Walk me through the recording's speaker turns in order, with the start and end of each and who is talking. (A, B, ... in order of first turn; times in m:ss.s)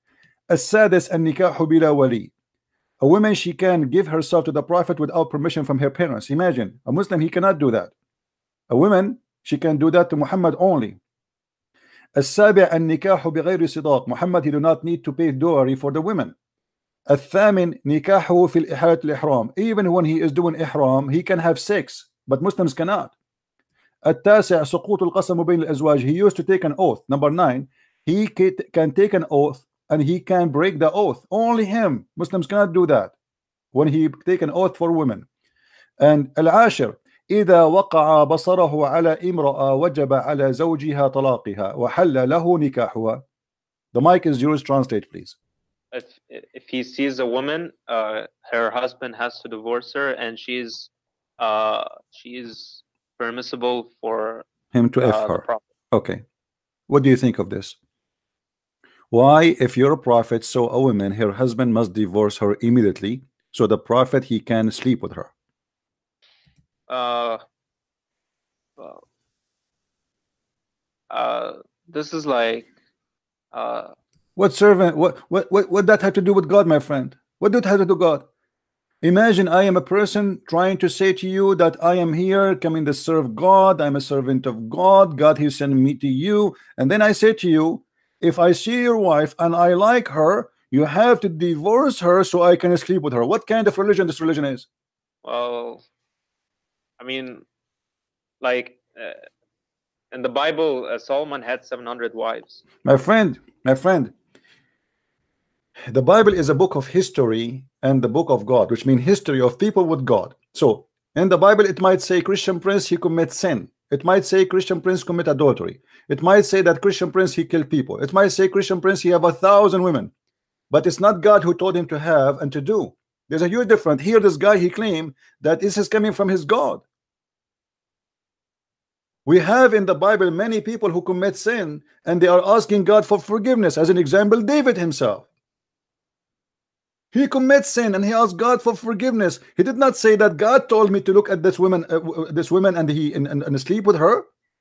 0:00.5-0:02.3 A
0:03.0-0:07.9 A
0:08.7-0:11.0 A
0:12.1-0:16.4 A
0:17.1-0:23.1 A
0:24.0-0:33.1 A
0:33.7-0:35.3 A
0:36.0-0:43.2 A
0:43.9-0:45.4 A
0:45.9-0:54.5 B
0:54.7-0:56.2 A
0:55.0-0:55.6 B
0:56.9-0:57.8 A
0:59.1-1:05.3 A
1:06.9-1:07.4 B
1:08.8-1:09.0 B
1:11.1-1:12.7 B
1:13.5-1:13.9 B
1:14.4-1:18.3 A
1:19.0-1:34.7 A
1:35.2-1:35.8 B
1:37.0-1:37.4 B
1:38.4-1:39.2 B
1:40.1-1:42.6 B
1:42.8-1:44.1 A
1:45.9-2:00.1 A
2:00.7-2:06.8 A
2:09.2-2:15.3 A
2:17.1-2:24.3 A